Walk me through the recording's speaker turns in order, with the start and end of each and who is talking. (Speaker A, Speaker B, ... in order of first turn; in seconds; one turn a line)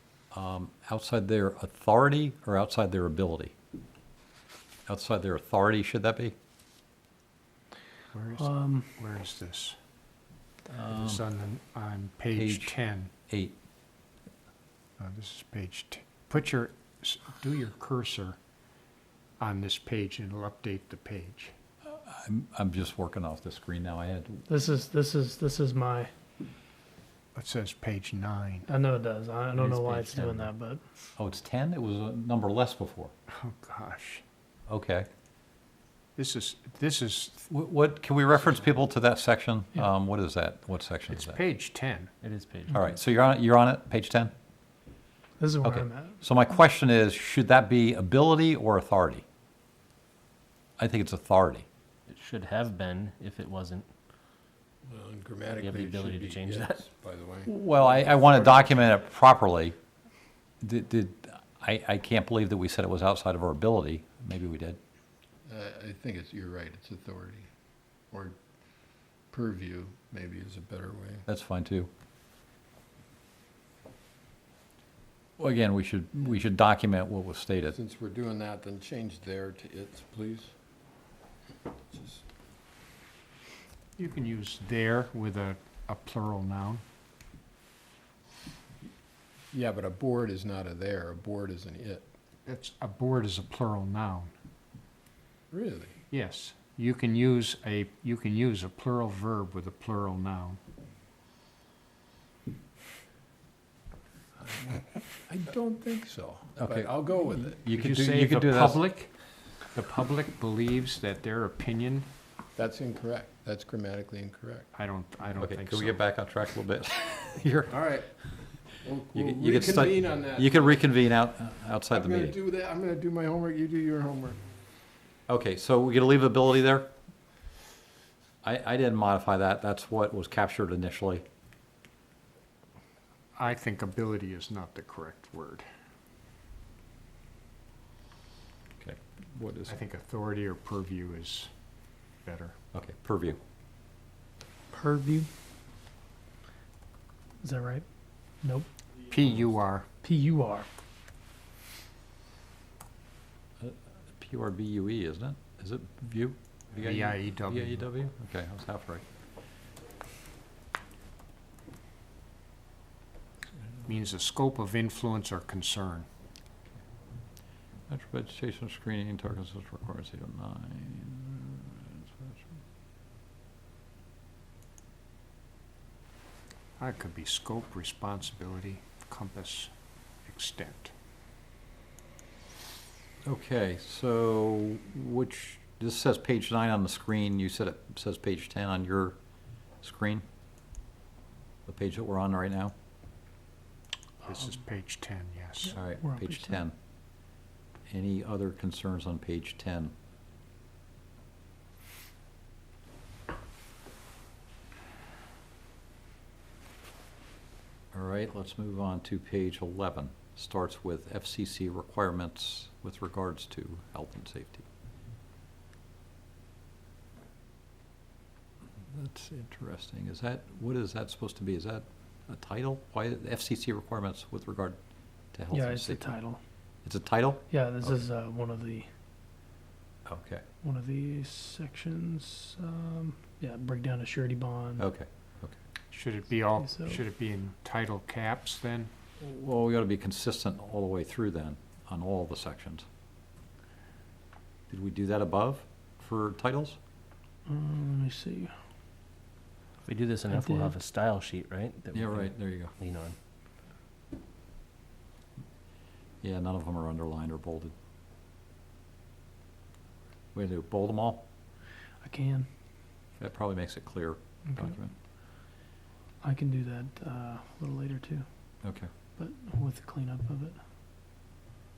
Speaker A: 0.3-3.5
Speaker A: 4.9-6.3
Speaker B: 8.1-9.8
Speaker C: 8.4-8.9
Speaker A: 10.7-11.2
Speaker B: 10.8-13.1
Speaker A: 12.3-12.7
Speaker A: 13.3-13.6
Speaker B: 15.0-18.4
Speaker B: 19.4-21.5
Speaker A: 21.9-24.4
Speaker C: 24.5-26.1
Speaker B: 27.3-28.7
Speaker C: 28.7-30.8
Speaker D: 29.6-30.1
Speaker B: 30.1-30.4
Speaker A: 31.2-33.1
Speaker B: 33.3-34.2
Speaker A: 34.7-35.1
Speaker B: 36.2-37.5
Speaker A: 37.5-41.4
Speaker B: 41.1-42.1
Speaker D: 42.2-42.9
Speaker A: 42.7-44.3
Speaker C: 45.4-46.2
Speaker A: 45.6-49.2
Speaker A: 50.8-51.7
Speaker D: 52.1-53.9
Speaker E: 54.9-58.7
Speaker D: 55.6-56.8
Speaker A: 57.5-59.8
Speaker A: 60.6-64.8
Speaker E: 65.5-67.5
Speaker E: 68.1-68.4
Speaker E: 69.3-71.2
Speaker A: 71.3-71.9
Speaker A: 75.4-77.8
Speaker E: 77.7-80.5
Speaker E: 81.9-82.2
Speaker B: 84.0-86.8
Speaker E: 89.5-92.1
Speaker B: 92.5-94.3
Speaker E: 95.5-96.0
Speaker B: 96.1-100.6
Speaker E: 104.4-107.6
Speaker A: 106.6-108.8
Speaker B: 107.7-109.1
Speaker B: 109.7-112.1
Speaker E: 112.6-114.7
Speaker B: 114.7-116.0
Speaker A: 115.4-117.8
Speaker E: 117.7-118.1
Speaker E: 118.7-120.9
Speaker A: 119.1-122.4
Speaker E: 121.9-124.4
Speaker A: 125.3-126.9
Speaker A: 128.4-131.2
Speaker B: 133.4-135.7
Speaker A: 138.8-139.8
Speaker B: 139.7-141.5
Speaker B: 142.2-142.6
Speaker A: 142.7-143.4
Speaker C: 144.7-145.3
Speaker C: 147.4-147.9
Speaker C: 148.4-148.7
Speaker B: 149.1-149.9
Speaker C: 150.0-150.7
Speaker A: 153.6-159.1
Speaker B: 156.8-157.9
Speaker B: 163.8-166.1
Speaker A: 167.9-172.5
Speaker B: 176.8-179.7
Speaker B: 180.2-180.9
Speaker A: 183.2-189.2
Speaker A: 189.8-190.2
Speaker A: 191.7-192.7
Speaker B: 194.2-195.8
Speaker C: 195.7-196.6
Speaker A: 195.7-196.7
Speaker A: 197.9-199.9
Speaker A: 207.9-214.7
Speaker A: 218.9-224.8
Speaker A: 225.3-226.0
Speaker C: 225.5-226.4
Speaker A: 226.8-227.9
Speaker C: 227.5-228.9
Speaker A: 230.1-230.4
Speaker C: 230.6-234.9
Speaker A: 234.8-235.6
Speaker B: 235.9-238.9
Speaker C: 236.6-237.0
Speaker A: 239.2-242.9
Speaker A: 244.7-246.8
Speaker C: 247.5-248.5
Speaker D: 249.8-253.2
Speaker C: 250.3-250.7
Speaker A: 251.9-252.8
Speaker A: 256.2-257.7
Speaker A: 260.3-261.2
Speaker C: 262.0-262.5
Speaker A: 263.2-264.9
Speaker C: 264.5-264.7
Speaker C: 266.2-268.3
Speaker A: 268.6-268.9
Speaker C: 269.1-270.6